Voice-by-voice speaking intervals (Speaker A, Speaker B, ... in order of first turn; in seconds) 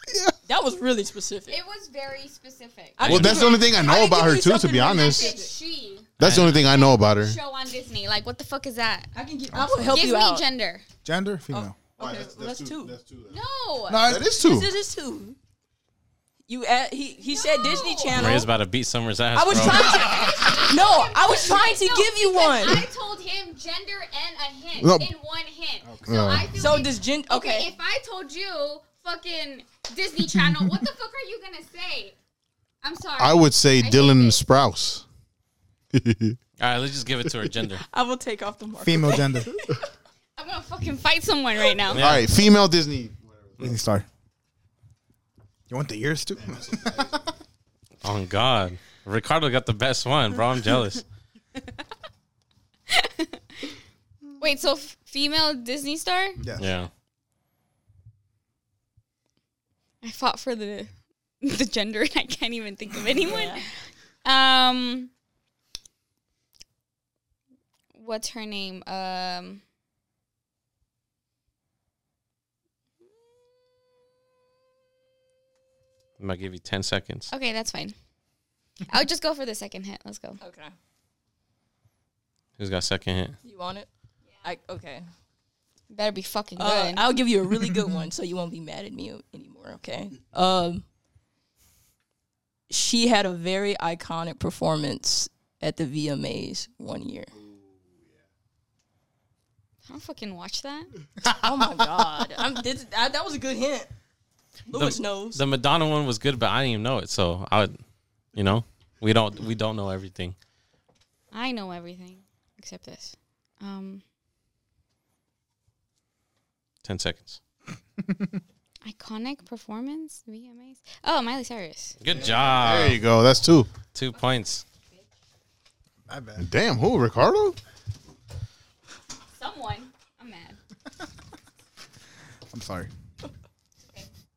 Speaker A: 0.5-1.6, 3.0-5.5, 9.1-10.4, 11.5-13.0, 14.3-15.3, 16.5-18.5, 19.3-22.9, 26.5-27.7, 37.9-39.3, 63.2-63.6, 80.4-80.7, 83.4-83.9, 84.4-85.0, 86.6-90.8, 92.7-97.3, 101.3-103.9, 104.7-105.4
Speaker B: 1.5-3.1, 3.6-9.1, 9.9-10.8, 13.3-14.0, 17.2-18.4, 19.6-32.1, 32.8-34.4, 40.4-42.0, 52.9-53.7, 54.4-56.4, 60.0-65.1, 67.9-69.6, 77.3-77.9, 78.9-80.4, 84.2-84.5, 85.9-87.1, 99.9-100.9, 111.3-114.0, 118.8-122.0, 124.1-125.0, 129.3-130.6, 133.8-134.1
Speaker C: 3.0-3.5, 6.2-6.6, 18.1-20.0, 36.6-37.8, 41.9-42.3, 48.0-51.0, 56.6-56.9, 76.2-77.3, 82.6-83.3, 104.7-107.8, 108.3-110.3, 116.8-117.4, 122.0-123.0, 123.9-124.6
Speaker D: 3.0-5.3, 6.2-7.4, 9.5-10.0, 12.0-13.4, 14.0-14.7, 24.8-25.1, 26.1-26.5, 33.2-35.0, 35.9-36.4, 42.0-43.8, 46.4-47.3, 97.3-98.2, 122.0-123.7, 126.4-127.6
Speaker E: 11.0-11.8, 13.9-14.4, 25.8-26.4, 30.3-30.8, 38.8-39.6, 43.6-44.0, 45.7-47.2, 56.4-56.7, 126.1-126.5, 132.5-132.9